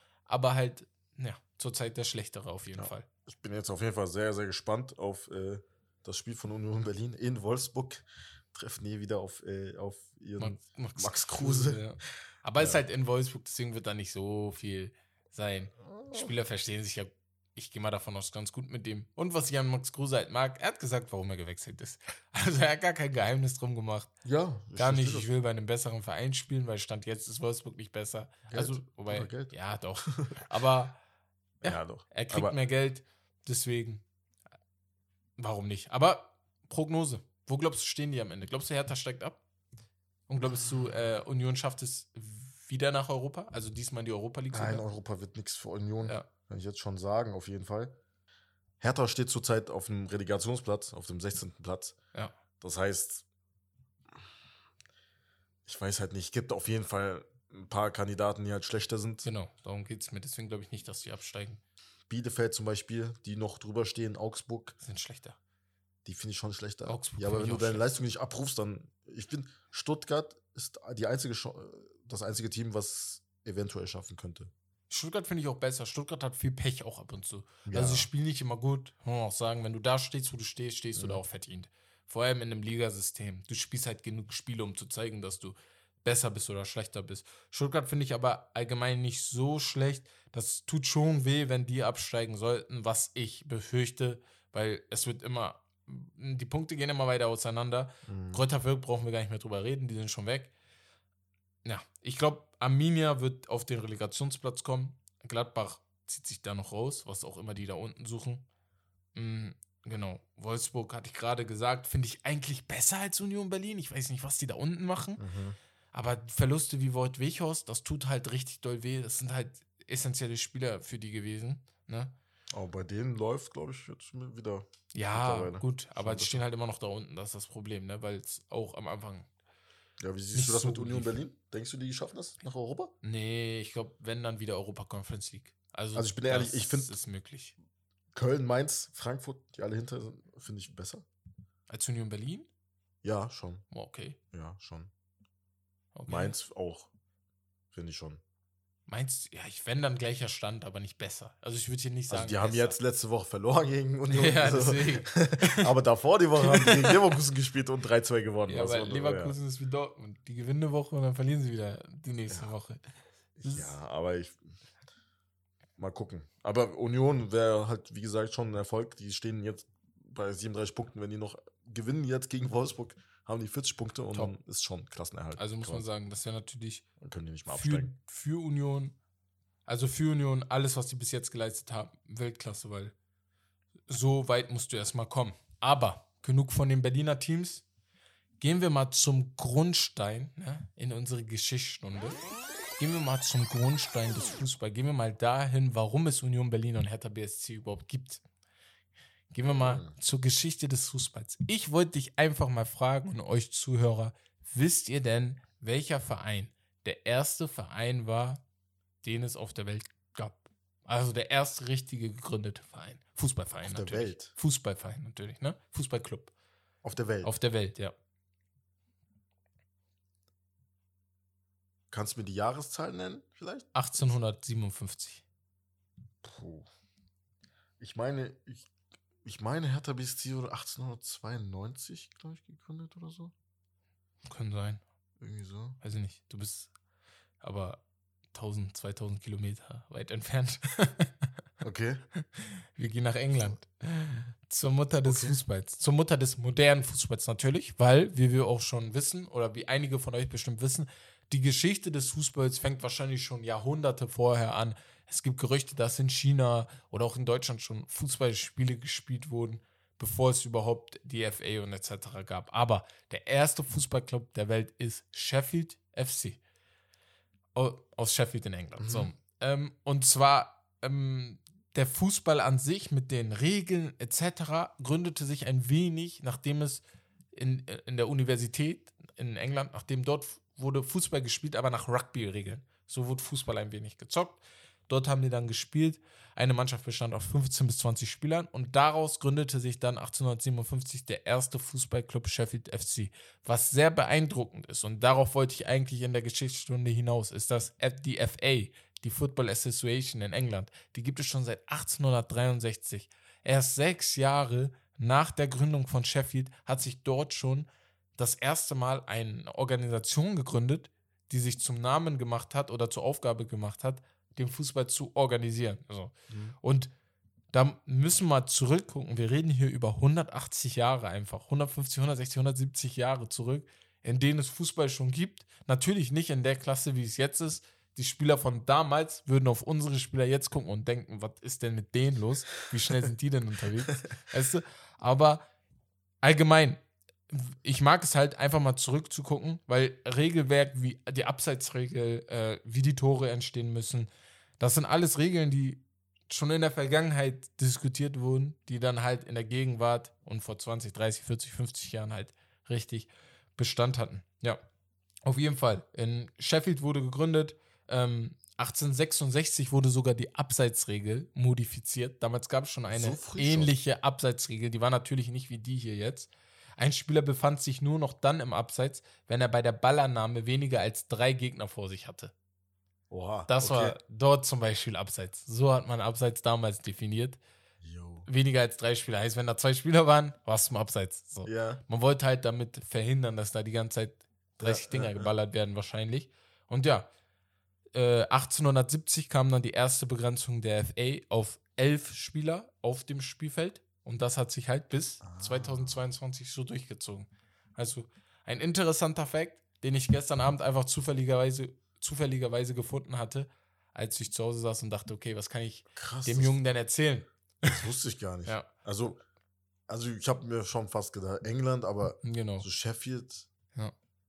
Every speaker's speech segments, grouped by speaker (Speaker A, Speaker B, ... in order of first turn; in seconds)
Speaker A: 0.3-3.0, 10.4-24.1, 24.7-31.0, 31.6-34.0, 35.4-39.4, 40.3-44.8, 59.2-61.6, 64.8-65.4, 66.8-67.9, 74.9-100.5, 101.6-108.4, 109.1-115.2, 115.9-122.1, 124.9-129.3, 130.3-131.2, 133.0-137.5, 141.7-142.5, 143.7-144.2, 145.9-146.3, 148.9-152.8, 154.1-155.7, 156.4-156.9, 158.5-162.8, 163.4-163.8, 175.4-176.8, 177.5-178.9, 179.7-182.9, 183.9-187.6, 188.4-192.2, 192.8-198.2, 199.3-208.4, 209.0-216.3, 217.2-217.9, 223.7-225.2, 234.2-234.8, 235.8-236.7, 237.4-237.8, 238.3-241.3, 242.1-266.4, 267.5-276.8, 277.3-316.9, 317.5-335.4, 336.2-354.6, 355.2-372.3, 373.5-377.4, 378.2-387.1, 387.9-407.9, 412.2-412.6
Speaker B: 2.8-11.8, 15.8-16.3, 24.2-25.3, 28.5-30.4, 31.6-32.5, 44.5-47.9, 48.8-52.0, 52.6-53.2, 55.6-59.3, 62.1-64.8, 66.0-74.5, 77.7-78.1, 80.9-81.2, 98.0-98.4, 115.2-115.6, 122.5-126.4, 130.0-132.9, 135.9-136.9, 138.1-141.0, 143.0-143.6, 144.3-144.9, 146.1-146.9, 147.7-148.2, 152.1-159.3, 163.4-164.4, 165.8-175.8, 177.0-177.9, 199.4-199.9, 213.6-214.3, 216.8-217.3, 221.9-223.7, 226.2-226.7, 227.8-228.7, 229.2-233.3, 235.2-235.8, 241.6-242.0, 245.0-245.4, 268.8-269.1, 316.3-316.6, 362.9-363.7, 373.1-374.0, 377.8-378.3, 381.4-381.8, 384.6-385.3, 395.2-396.0, 405.9-406.6, 407.6-409.2, 409.9-413.5